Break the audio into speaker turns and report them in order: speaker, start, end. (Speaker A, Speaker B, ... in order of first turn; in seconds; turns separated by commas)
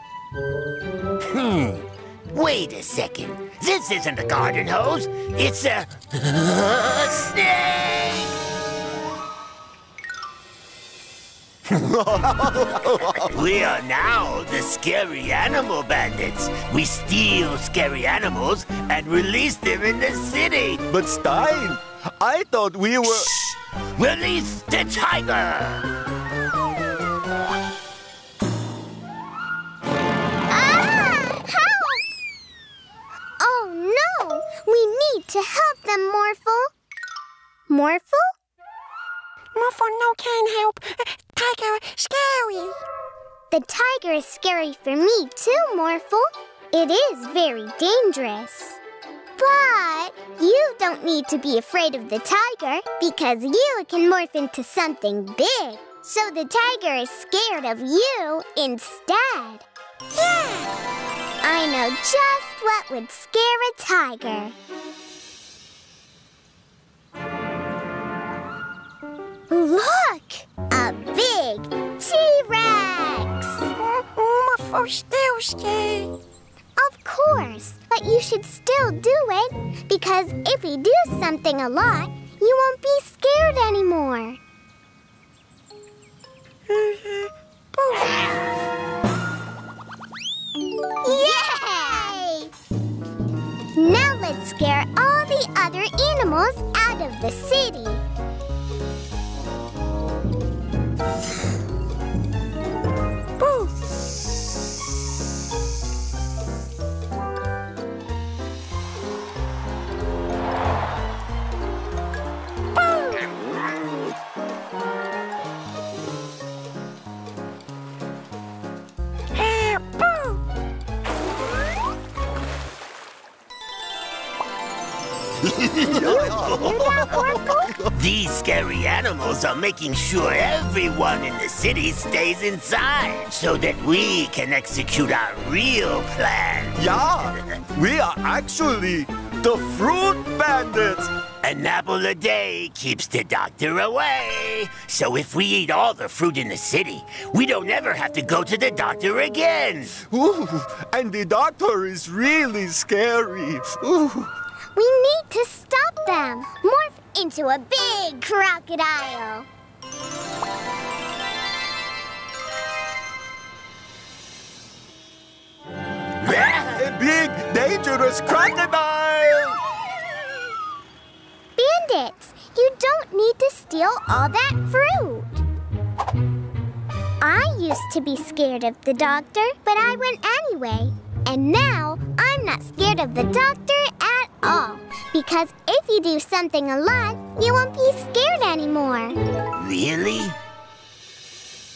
Speaker A: 1.3-8.3, Speaker B: 11.7-13.3, Speaker A: 13.2-20.9, Speaker B: 20.9-23.3, Speaker A: 23.1-25.9, Speaker C: 30.5-32.0, Speaker C: 33.4-36.7, Speaker C: 37.7-38.3, Speaker D: 39.5-42.8, Speaker C: 43.5-48.8, Speaker C: 49.4-59.7, Speaker C: 60.2-60.7, Speaker C: 61.4-64.5, Speaker C: 69.5-73.7, Speaker D: 73.8-76.1, Speaker C: 76.8-84.4, Speaker D: 86.7-88.3, Speaker C: 91.0-92.5, Speaker C: 93.8-98.0, Speaker D: 103.4-103.7, Speaker D: 112.9-113.2, Speaker D: 119.3-120.4, Speaker A: 125.5-126.8, Speaker B: 125.8-127.9, Speaker D: 126.8-127.7, Speaker A: 127.9-136.8, Speaker B: 136.8-141.1, Speaker A: 141.4-149.9, Speaker B: 150.0-154.3, Speaker C: 154.8-159.5, Speaker A: 166.2-166.8, Speaker B: 166.8-169.6, Speaker C: 171.6-175.4, Speaker C: 177.2-189.2, Speaker A: 189.6-190.4